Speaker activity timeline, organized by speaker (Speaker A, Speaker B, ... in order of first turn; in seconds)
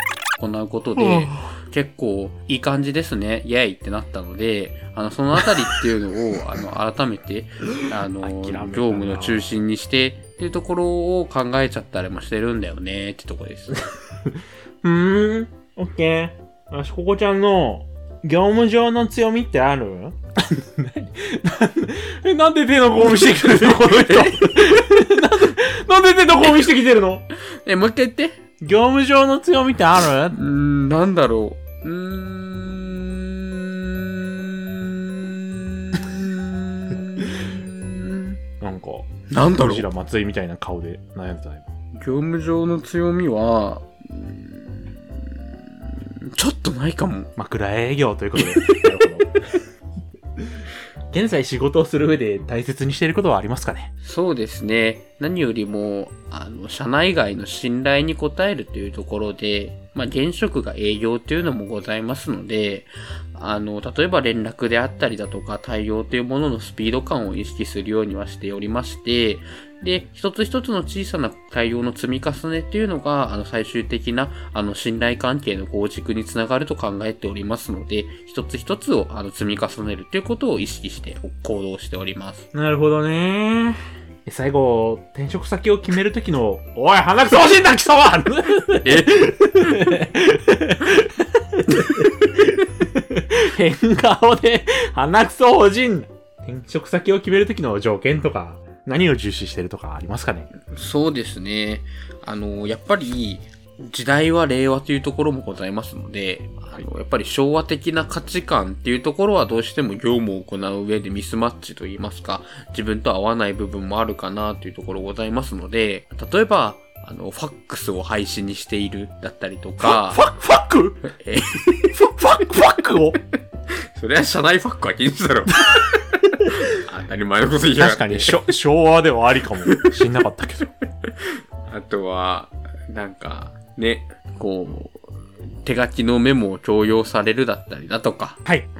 Speaker A: 0.4-13.8, 23.2-24.6, 27.6-28.4, 30.3-38.4, 39.3-39.9, 41.9-47.3, 48.4-48.8, 54.0-82.5, 88.8-89.4, 100.6-120.2, 121.1-121.9, 123.9-128.5, 129.7-129.9, 131.0-138.4
Speaker B: 1.0-1.4, 8.2-9.5, 14.2-27.2, 28.6-30.4, 38.6-41.6, 47.4-49.4, 50.4-53.9, 82.5-100.5, 119.8-121.0, 121.9-123.2, 127.8-130.7